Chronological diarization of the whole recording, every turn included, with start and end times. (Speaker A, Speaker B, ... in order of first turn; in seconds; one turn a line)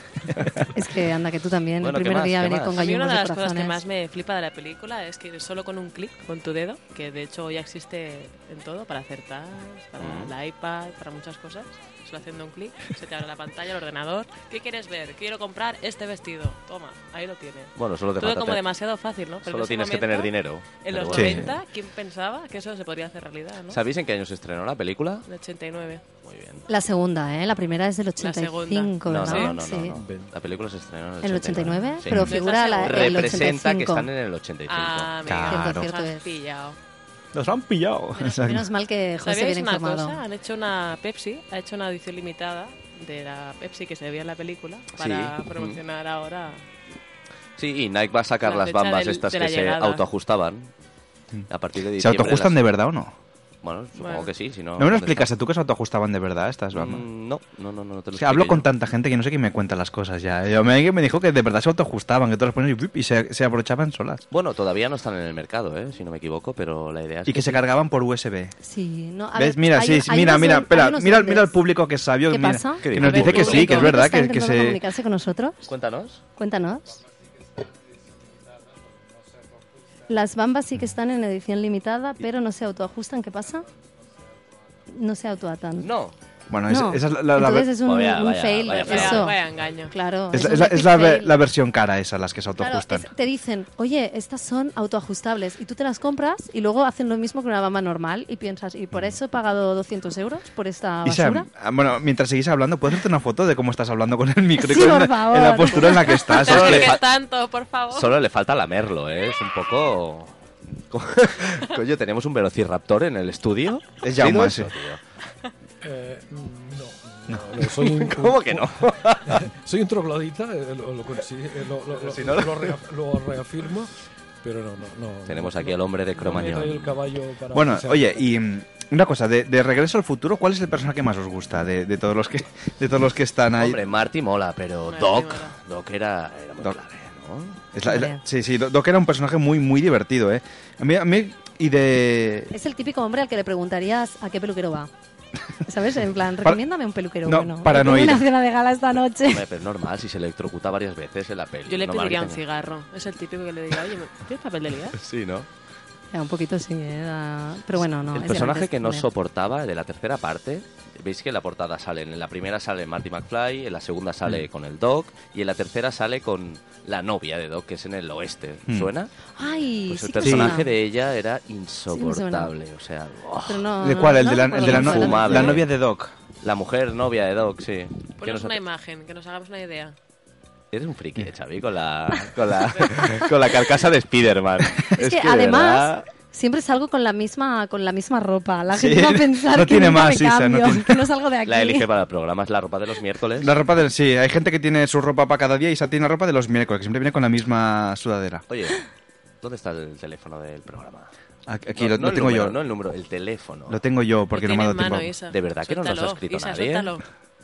Speaker A: 0.3-0.7
Speaker B: 0.7-3.8
Speaker C: 1.8-2.8
Speaker D: 2.7-23.8
Speaker C: 10.0-10.3
Speaker C: 17.8-18.6
Speaker C: 19.4-21.6
Speaker E: 21.1-21.5
Speaker C: 23.7-25.3
Speaker D: 25.3-26.0
Speaker C: 26.2-26.7
Speaker B: 26.7-30.0
Speaker D: 28.2-29.5
Speaker C: 29.1-35.2
Speaker A: 30.0-30.3
Speaker B: 31.2-34.1
Speaker E: 32.1-32.3
Speaker D: 32.2-33.4
Speaker D: 34.7-36.8
Speaker E: 35.2-35.9
Speaker B: 35.5-36.2
Speaker E: 37.3-38.7
Speaker B: 38.4-40.2
Speaker D: 39.2-46.6
Speaker C: 45.0-45.8
Speaker C: 47.6-50.7
Speaker D: 48.4-50.0
Speaker E: 51.3-53.1
Speaker C: 51.5-52.6
Speaker C: 53.6-55.3
Speaker D: 54.0-54.3
Speaker E: 54.8-57.1
Speaker C: 56.7-58.7
Speaker E: 58.1-64.2
Speaker C: 64.3-67.6
Speaker E: 67.3-68.5
Speaker B: 68.6-71.5
Speaker E: 69.3-74.8
Speaker B: 72.3-75.7
Speaker C: 72.8-73.9
Speaker D: 73.0-73.9
Speaker C: 75.7-76.2
Speaker B: 76.4-77.0
Speaker B: 80.1-83.7
Speaker B: 84.9-85.9
Speaker C: 85.8-86.2
Speaker E: 86.5-87.7
Speaker B: 86.7-91.4
Speaker C: 87.8-89.3
Speaker D: 88.8-89.9
Speaker E: 90.3-93.1
Speaker B: 92.6-101.5
Speaker E: 101.0-107.0
Speaker B: 104.6-106.3
Speaker D: 106.3-108.2
Speaker C: 106.4-107.1
Speaker C: 107.9-110.3
Speaker C: 110.9-115.0
Speaker E: 114.0-114.8
Speaker A: 115.8-128.3
Speaker C: 117.7-119.5
Speaker E: 122.1-122.6
Speaker C: 125.3-127.0
Speaker E: 127.5-133.8
Speaker C: 133.6-137.6
Speaker D: 134.9-135.6
Speaker E: 137.7-142.5
Speaker B: 137.8-138.2
Speaker B: 142.5-144.9
Speaker B: 145.7-149.4
Speaker E: 147.2-148.3
Speaker C: 149.2-152.4
Speaker D: 151.7-155.0
Speaker C: 155.0-155.5
Speaker B: 156.1-159.1
Speaker C: 158.1-169.1
Speaker B: 169.4-170.7
Speaker C: 169.9-173.7
Speaker E: 170.2-170.6
Speaker B: 171.9-172.5
Speaker B: 173.5-175.6
Speaker E: 173.8-176.1
Speaker C: 174.6-175.7
Speaker C: 176.4-178.6
Speaker D: 178.2-179.9
Speaker C: 180.7-186.0
Speaker B: 184.9-191.9
Speaker E: 188.7-191.1
Speaker C: 191.5-193.5
Speaker E: 193.4-198.4
Speaker C: 198.5-198.8
Speaker C: 199.4-201.1
Speaker E: 201.5-202.6
Speaker C: 201.8-203.8
Speaker E: 203.7-205.1
Speaker D: 204.3-207.1
Speaker C: 205.3-206.9